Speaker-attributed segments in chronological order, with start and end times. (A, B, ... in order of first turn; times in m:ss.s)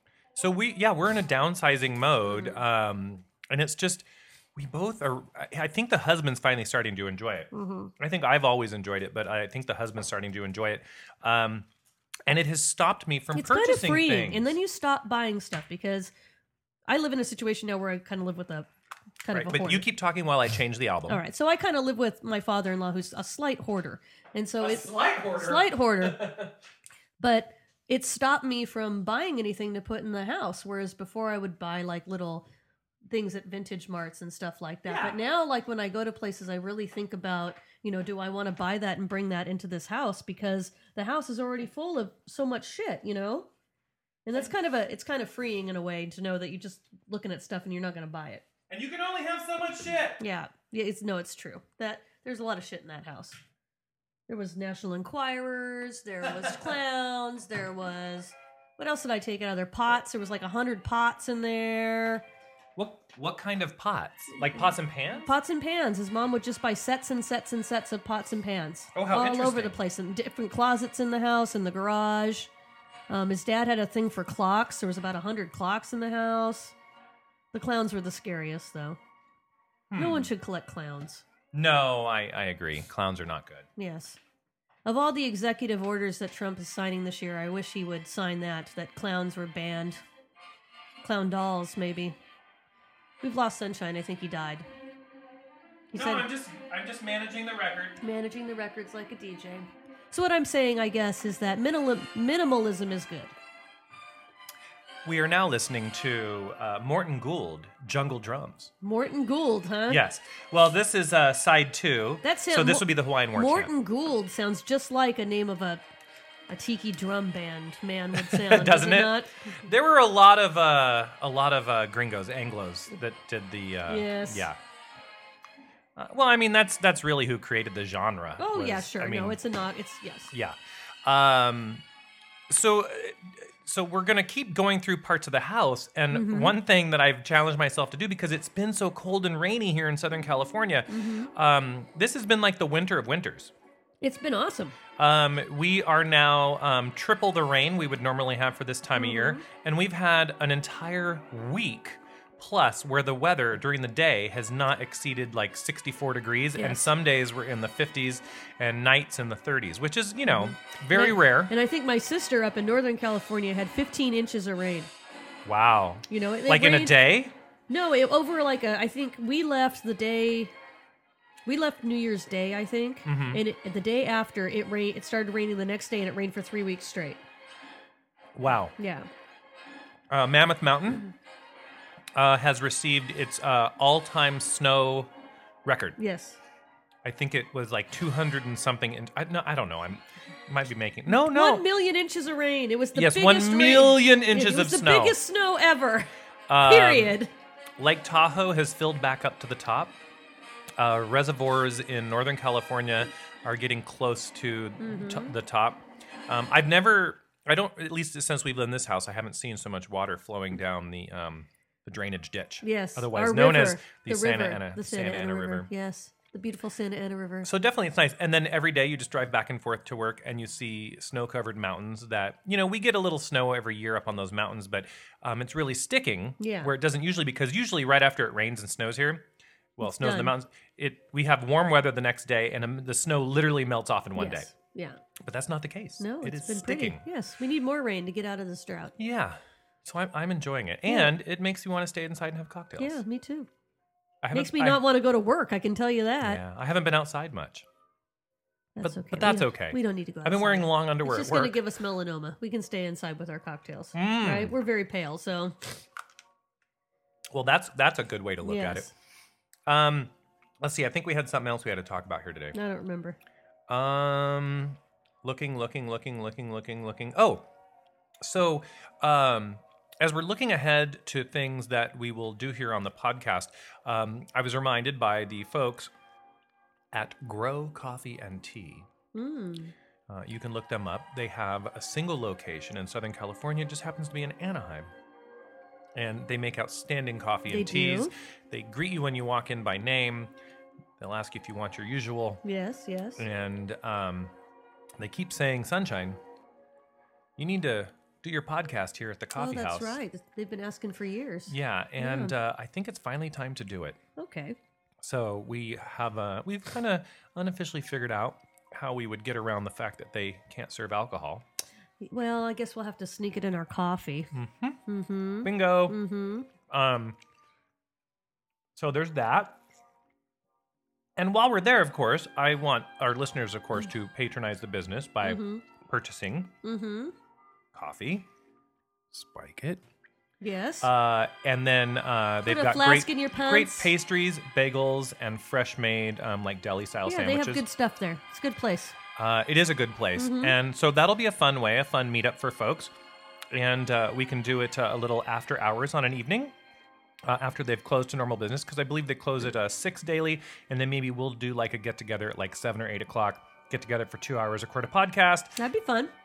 0:00.4-0:11.7 A
0:02.2-0:02.6 B
0:07.5-0:07.9 B
0:12.3-0:14.6 A
0:13.3-0:16.1 B
0:16.9-0:18.7 B
0:19.2-0:19.9 B
0:19.3-0:21.2 A
0:21.1-0:26.3 B
0:24.6-0:26.5 A
0:27.2-0:32.4 B
0:33.1-0:43.5 B
0:34.9-0:35.2 A
0:44.3-0:48.4 B
0:48.7-0:50.2 A
0:50.2-0:53.4 B
0:54.3-1:02.2 B
0:56.2-0:56.8 A
1:02.8-1:05.3 A
1:05.1-1:12.5 B
1:09.0-1:09.8 A
1:13.1-1:16.8 B
1:17.5-1:19.0 B
1:19.9-1:20.3 A
1:20.0-1:21.2 B
1:21.5-1:23.7 A
1:23.8-1:24.2 B
1:24.9-1:30.0 B
1:31.0-1:32.2 B
1:33.2-1:34.7 B
1:35.9-1:36.3 B
1:35.9-1:38.0 A
1:38.0-1:43.4 B
1:45.0-1:48.7 A
1:48.8-1:50.0 B
1:49.9-1:53.7 A
1:52.2-1:55.8 B
1:56.5-1:59.6 B
1:58.1-2:04.6 A
2:03.9-2:04.5 B
2:06.0-2:09.4 A
2:08.4-2:10.3 B
2:10.3-2:11.8 A
2:12.5-2:23.5 A
2:16.1-2:16.6 B
2:20.9-2:21.3 B
2:24.0-2:24.8 B
2:25.0-2:41.5 A
2:29.0-2:29.4 B
2:36.6-2:36.9 B
2:40.3-2:44.9 B
2:45.4-2:47.4 A
2:46.1-2:47.0 B
2:47.7-2:50.5 B
2:51.5-2:57.2 B
2:53.1-2:53.4 A
2:58.4-2:58.7 A
2:58.8-2:59.1 B
3:00.1-3:01.1 A
3:02.2-3:05.1 A
3:05.6-3:06.0 A
3:06.0-3:06.4 B
3:07.0-3:11.7 A
3:11.1-3:16.1 B
3:12.9-3:15.2 A
3:16.5-3:17.2 A
3:16.6-3:17.3 B
3:17.8-3:20.0 A
3:20.8-3:35.7 A
3:24.8-3:25.3 B
3:32.6-3:37.5 B
3:37.4-3:49.3 A
3:46.4-3:46.7 B
3:49.8-3:54.5 A
3:49.8-3:50.3 B
3:54.2-3:55.0 B
3:55.2-3:57.0 A
3:56.0-3:59.0 B
3:59.0-4:03.0 A
4:00.9-4:01.1 B
4:02.8-4:03.5 B
4:04.2-4:04.8 A
4:04.3-4:06.4 B
4:06.2-4:07.7 A
4:08.8-4:15.7 B
4:08.8-4:11.6 A
4:13.9-4:14.6 A
4:17.3-4:18.9 A
4:18.4-4:18.9 B
4:19.7-4:22.6 A
4:22.5-4:23.2 B
4:23.7-4:27.4 A
4:28.2-4:35.9 A
4:36.9-4:38.9 A
4:39.1-4:39.7 B
4:40.1-4:44.9 A
4:46.0-4:50.3 A
4:47.5-4:48.1 B
4:51.0-4:52.4 A
4:52.4-4:53.2 B
4:53.2-4:54.3 A
4:55.0-4:56.2 A
4:57.4-5:00.0 A
4:59.4-5:02.3 B
5:01.5-5:04.0 A
5:04.2-5:04.6 B
5:05.0-5:11.4 A
5:12.0-5:14.3 B
5:14.3-5:14.8 A
5:14.9-5:16.5 B
5:15.4-5:16.0 A
5:16.7-5:17.2 A
5:18.8-5:19.6 A
5:21.2-5:26.5 A
5:25.2-5:25.6 B
5:26.6-5:27.1 B
5:27.7-5:28.3 A
5:29.1-5:29.8 A
5:30.4-5:30.9 B
5:30.8-5:37.6 A
5:32.5-5:33.9 B
5:37.1-5:39.0 B
5:39.2-5:42.9 A
5:40.2-5:40.6 B
5:43.5-5:46.5 A
5:47.2-5:55.6 A
5:55.6-5:56.1 B